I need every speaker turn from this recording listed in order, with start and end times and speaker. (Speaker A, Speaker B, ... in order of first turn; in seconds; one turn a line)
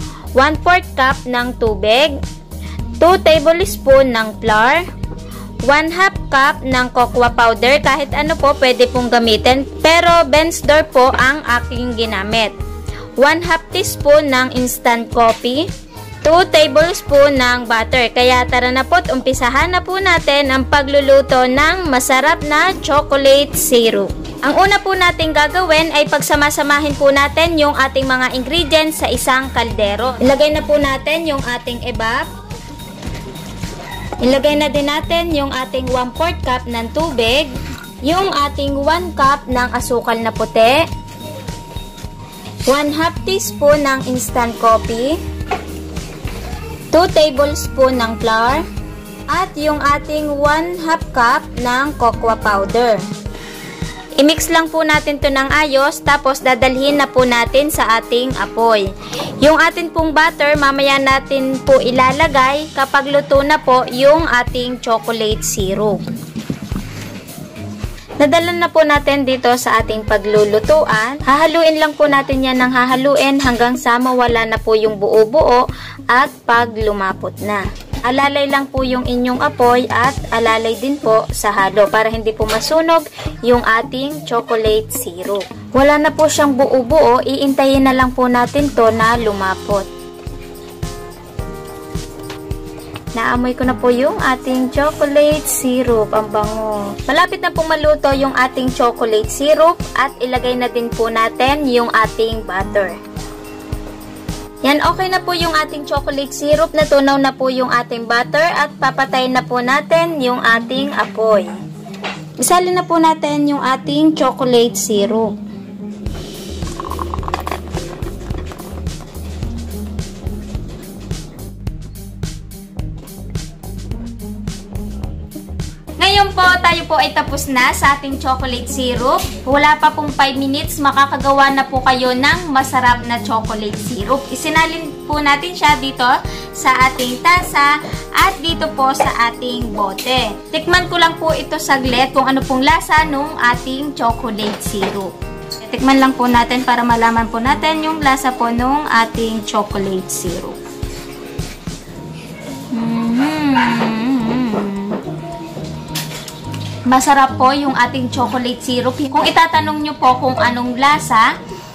Speaker A: 0.4-2.2
Speaker A: 3.0-4.9
Speaker A: 5.7-12.5
Speaker A: 13.2-15.7
Speaker A: 16.2-32.3
Speaker A: 34.2-37.5
Speaker A: 38.0-40.9
Speaker A: 42.7-45.2
Speaker A: 46.9-48.6
Speaker A: 49.3-53.0
Speaker A: 54.2-58.9
Speaker A: 59.4-66.0
Speaker A: 68.2-89.9
Speaker A: 93.1-103.0
Speaker A: 104.6-111.5
Speaker A: 112.4-115.3
Speaker A: 126.0-150.6
Speaker A: 152.7-155.0
Speaker A: 156.9-161.3